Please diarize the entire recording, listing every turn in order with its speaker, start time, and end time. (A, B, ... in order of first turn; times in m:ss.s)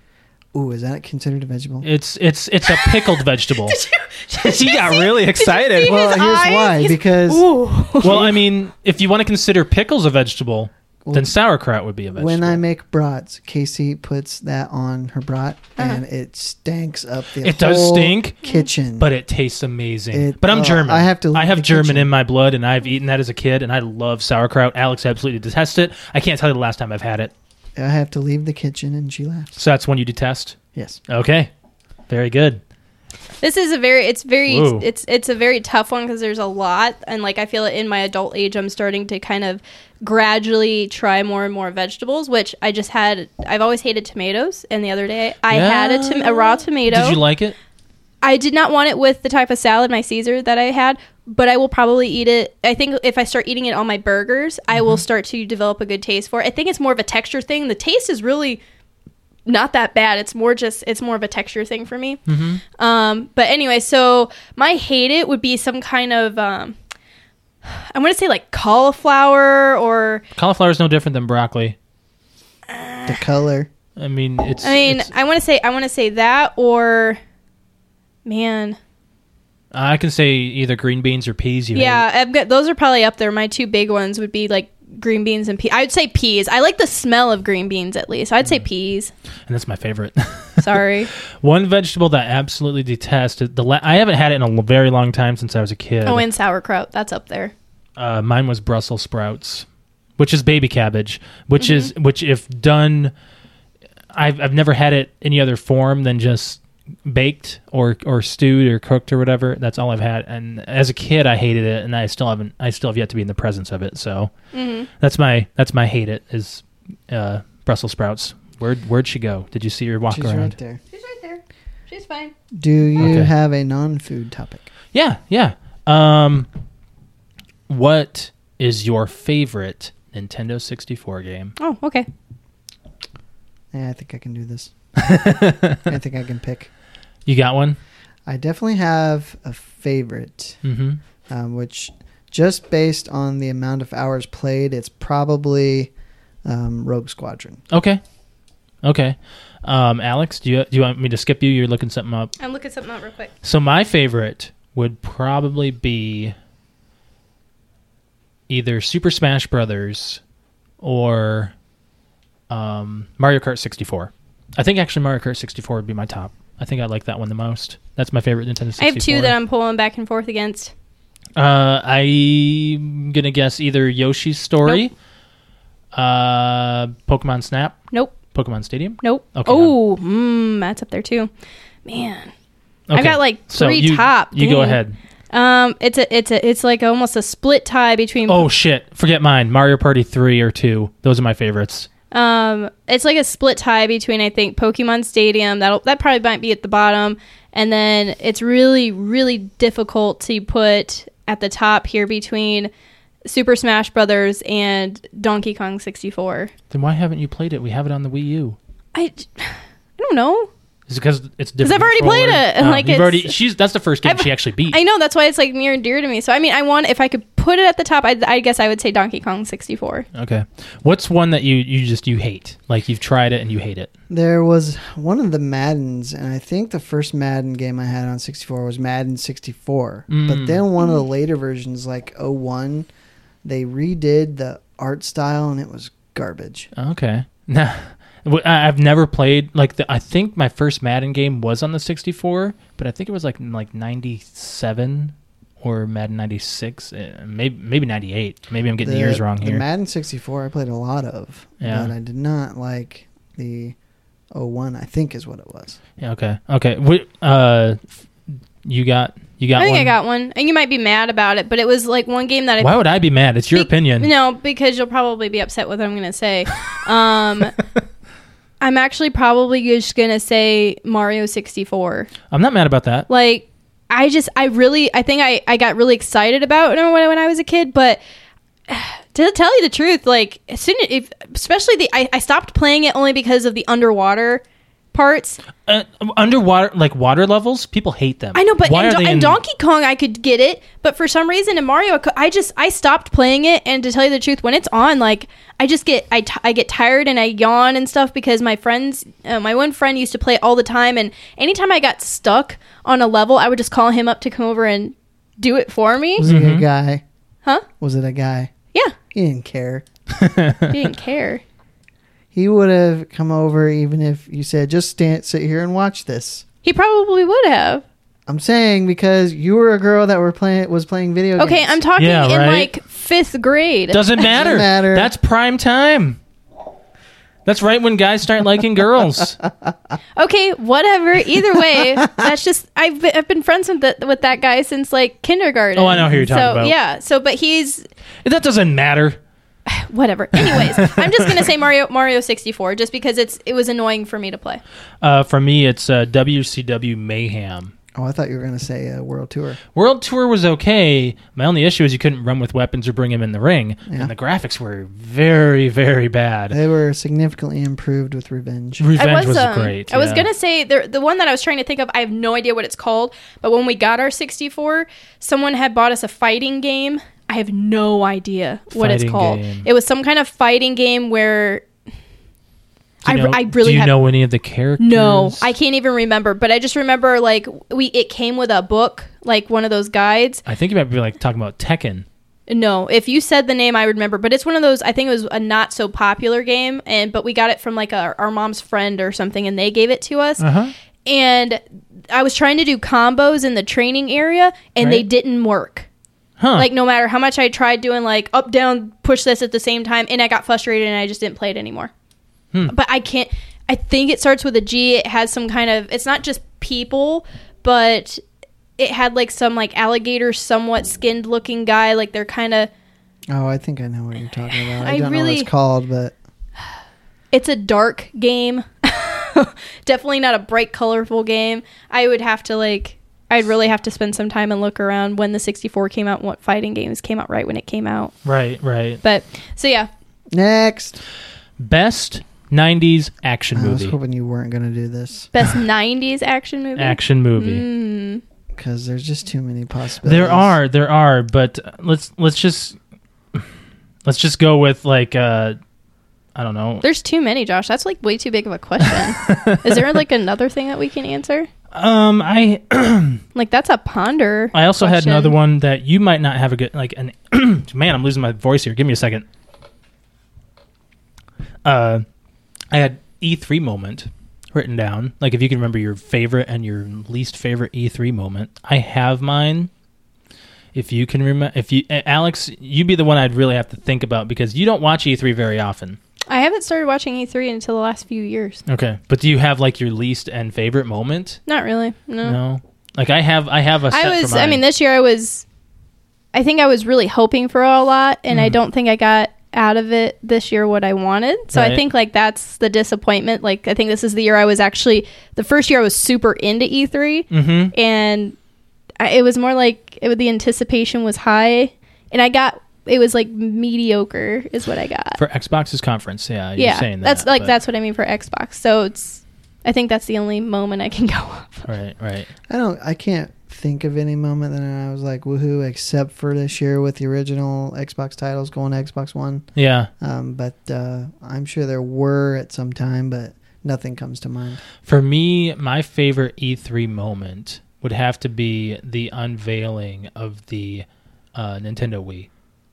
0:00.5-0:01.9 A
0:01.8-0:03.8 B
0:02.7-0:08.3 C
0:04.4-0:06.0 B
0:05.8-0:07.5 A
0:08.0-0:12.6 B
0:11.0-0:11.3 A
0:12.2-0:19.1 A
0:17.4-0:18.4 B
0:19.0-0:27.3 B
0:20.1-0:22.1 A
0:27.8-0:29.6 A
0:29.6-0:30.6 B
0:30.7-0:31.0 A
0:31.1-0:31.5 B
0:32.1-0:32.6 B
0:33.4-0:47.2 C
0:34.5-0:34.8 B
0:45.5-0:47.5 B
0:48.2-0:58.6 C
0:54.7-0:55.0 B
0:59.4-1:02.2 C
1:02.3-1:02.6 B
1:02.8-1:06.8 C
1:07.6-1:10.2 C
1:10.3-1:11.8 B
1:12.7-1:13.2 C
1:13.0-1:13.7 A
1:14.0-1:15.1 B
1:14.6-1:17.2 C
1:18.2-1:18.8 C
1:19.7-1:22.0 B
1:21.7-1:29.1 C
1:29.5-1:30.8 B
1:30.6-1:31.1 C
1:31.4-1:36.2 B
1:36.0-1:37.5 C
1:38.0-1:39.6 B
1:40.2-1:43.1 B
1:41.6-1:41.9 C
1:44.1-1:54.3 B
1:54.5-1:54.9 C
1:54.9-2:00.5 B
2:00.1-2:00.8 A
2:00.9-2:02.3 C
2:02.5-2:04.7 A
2:03.0-2:03.3 B
2:04.9-2:06.5 B
2:07.7-2:11.5 B
2:11.6-2:12.1 C
2:13.7-2:14.7 A
2:15.0-2:15.8 B
2:15.8-2:16.7 A
2:17.2-2:17.8 B
2:18.2-2:20.6 A
2:20.6-2:21.0 B
2:21.3-2:25.9 A
2:26.4-2:27.6 A
2:27.7-2:28.0 B
2:28.8-2:32.4 B
2:32.4-2:33.3 C
2:33.4-2:36.3 B
2:38.5-2:40.2 B
2:40.8-2:41.5 B
2:42.5-2:49.4 B
2:48.8-2:50.7 C
2:51.4-2:54.9 B
2:55.9-2:59.7 B
2:57.9-2:58.2 C
2:59.0-3:01.3 C
3:01.8-3:02.3 C
3:02.9-3:05.0 B
3:02.9-3:04.8 C
3:05.3-3:08.5 C
3:08.3-3:11.9 B
3:12.1-3:22.7 C
3:23.2-3:26.5 C
3:26.7-3:28.6 B
3:28.9-3:30.5 C
3:30.9-3:34.8 B
3:31.6-3:33.3 C
3:34.0-3:40.1 C
3:40.1-3:43.9 B
3:44.1-3:52.9 A
3:50.1-3:50.6 B
3:53.4-3:56.7 A
3:56.8-4:09.6 B
4:08.8-4:13.7 A
4:11.6-4:11.9 B
4:14.3-4:15.8 A
4:16.0-4:17.9 B
4:18.6-4:19.9 B
4:19.6-4:22.8 C
4:22.6-4:24.1 B
4:23.5-4:27.6 C
4:28.6-4:32.1 C
4:32.3-4:33.1 B
4:33.1-4:38.0 C
4:38.7-4:45.4 C
4:45.6-4:49.4 B
4:48.3-5:06.2 C
5:06.2-5:07.0 A
5:06.2-5:06.6 B
5:07.8-5:08.5 A
5:09.1-5:09.8 A
5:10.2-5:10.7 B
5:10.7-5:11.4 C
5:12.3-5:16.4 A
5:16.6-5:17.8 C
5:18.3-5:21.8 A
5:21.4-5:24.1 C
5:22.0-5:22.7 B
5:23.9-5:26.2 B
5:24.2-5:25.1 A
5:27.4-5:29.4 B
5:30.2-5:37.9 C
5:32.0-5:32.2 A
5:35.7-5:36.7 B
5:38.2-5:39.2 B
5:39.7-5:44.6 C
5:40.4-5:41.5 B
5:45.0-5:47.7 B
5:47.9-5:49.6 A
5:49.7-5:56.6 B
5:56.5-5:58.9 A
5:58.8-6:00.3 B
5:59.0-6:11.6 C
6:08.7-6:09.7 B
6:13.0-6:15.5 B
6:13.0-6:14.0 C
6:14.8-6:20.4 C
6:20.4-6:22.0 B
6:22.5-6:30.4 C
6:30.4-6:30.7 B
6:31.0-6:35.9 C
6:36.4-6:36.7 B
6:36.6-6:41.9 C
6:42.7-6:48.2 C
6:48.8-6:52.7 C
6:53.3-6:56.2 A
6:54.6-6:55.5 C
6:57.3-7:08.1 C
7:08.2-7:09.0 B
7:09.0-7:09.9 C
7:10.3-7:11.0 A
7:11.6-7:13.9 B
7:13.5-7:15.3 A
7:15.3-7:18.2 C
7:16.8-7:17.6 B
7:18.5-7:20.6 A
7:20.0-7:22.8 B
7:24.0-7:25.6 B
7:26.3-7:26.8 B
7:26.8-7:31.5 C
7:28.9-7:29.9 B
7:31.7-7:33.2 B
7:33.4-7:35.3 C
7:34.5-7:39.2 B
7:41.6-7:42.0 B
7:42.7-7:49.7 B
7:50.7-7:56.0 B
7:56.3-7:58.6 C
7:58.7-8:01.4 B
8:01.5-8:02.4 C
8:02.2-8:04.6 B
8:03.9-8:05.4 C
8:06.3-8:18.4 C
8:08.3-8:08.6 B
8:11.5-8:11.8 B
8:17.3-8:17.7 B
8:19.0-8:25.2 C
8:25.2-8:27.5 B
8:26.6-8:31.7 C
8:31.7-8:32.3 B
8:32.5-8:39.4 A
8:39.5-8:39.9 B
8:40.0-8:44.6 A
8:44.8-8:52.3 B